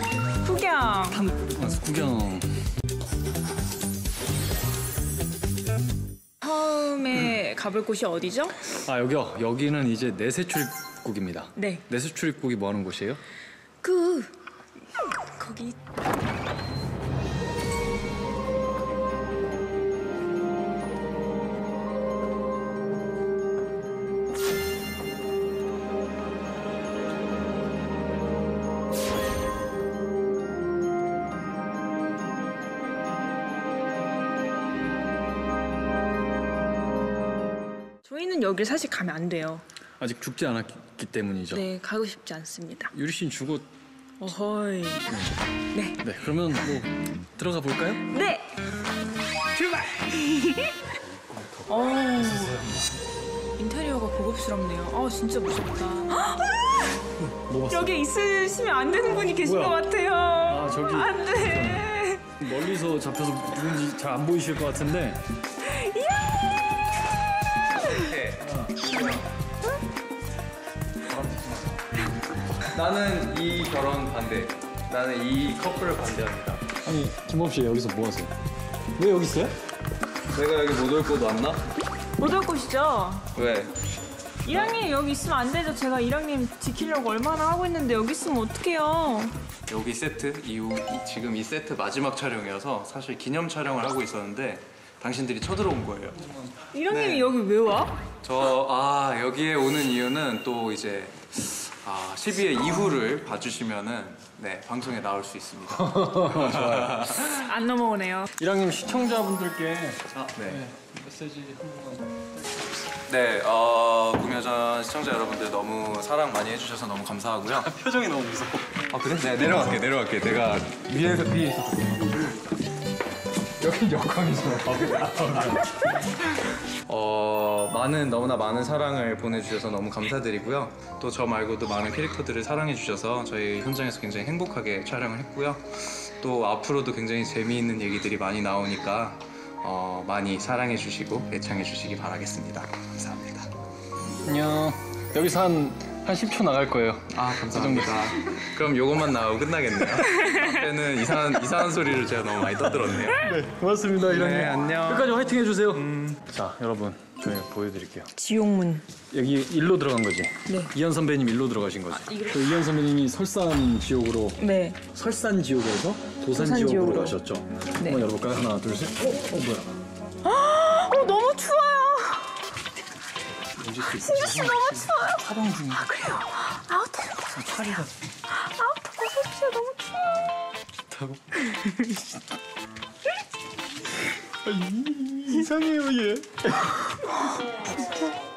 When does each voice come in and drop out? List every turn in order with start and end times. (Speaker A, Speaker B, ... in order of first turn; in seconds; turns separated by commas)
Speaker A: 0.4-1.2, Speaker B: 1.1-2.5, Speaker A: 6.4-8.7, Speaker B: 8.7-13.2, Speaker A: 11.6-11.8, Speaker A: 13.8-14.3, Speaker A: 15.3-15.8, Speaker A: 38.0-39.6, Speaker B: 40.0-41.6, Speaker A: 41.5-42.9, Speaker B: 42.9-43.7, Speaker A: 44.2-45.2, Speaker A: 45.7-46.0, Speaker B: 46.0-48.0, Speaker A: 48.1-48.5, Speaker A: 49.5-50.9, Speaker B: 51.0-52.8, Speaker A: 51.7-52.7, Speaker A: 53.6-57.0, Speaker B: 57.3-57.9, Speaker A: 57.7-62.3, Speaker B: 59.4-59.8, Speaker B: 60.5-65.2, Speaker A: 65.6-66.5, Speaker C: 67.8-68.4, Speaker B: 68.4-68.9, Speaker B: 71.1-71.7, Speaker C: 72.7-76.7, Speaker B: 76.8-78.3, Speaker B: 78.9-79.5, Speaker C: 80.3-81.6, Speaker A: 82.2-83.3, Speaker C: 83.3-83.7, Speaker A: 84.4-89.3, Speaker C: 89.7-96.4, Speaker A: 96.7-97.9, Speaker C: 96.9-97.3, Speaker C: 98.2-107.3, Speaker B: 105.8-107.2, Speaker A: 107.2-108.3, Speaker B: 108.4-112.1, Speaker C: 110.1-110.6, Speaker C: 113.1-117.7, Speaker B: 117.6-118.8, Speaker C: 118.8-122.4, Speaker C: 123.6-125.5, Speaker B: 124.1-125.7, Speaker C: 126.9-143.5, Speaker B: 144.2-148.4, Speaker C: 147.1-153.3, Speaker B: 153.1-158.1, Speaker C: 154.0-155.1, Speaker C: 155.7-156.2, Speaker A: 158.1-158.8, Speaker B: 159.1-169.8, Speaker A: 160.4-160.7, Speaker A: 162.0-162.5, Speaker A: 164.4-164.8, Speaker A: 166.3-167.2, Speaker A: 170.2-172.3, Speaker B: 173.5-175.9, Speaker A: 173.9-177.8, Speaker B: 177.3-177.9, Speaker A: 178.3-180.1, Speaker B: 180.9-181.2, Speaker A: 181.4-182.1, Speaker B: 184.2-187.0, Speaker A: 187.2-187.4, Speaker B: 187.6-188.1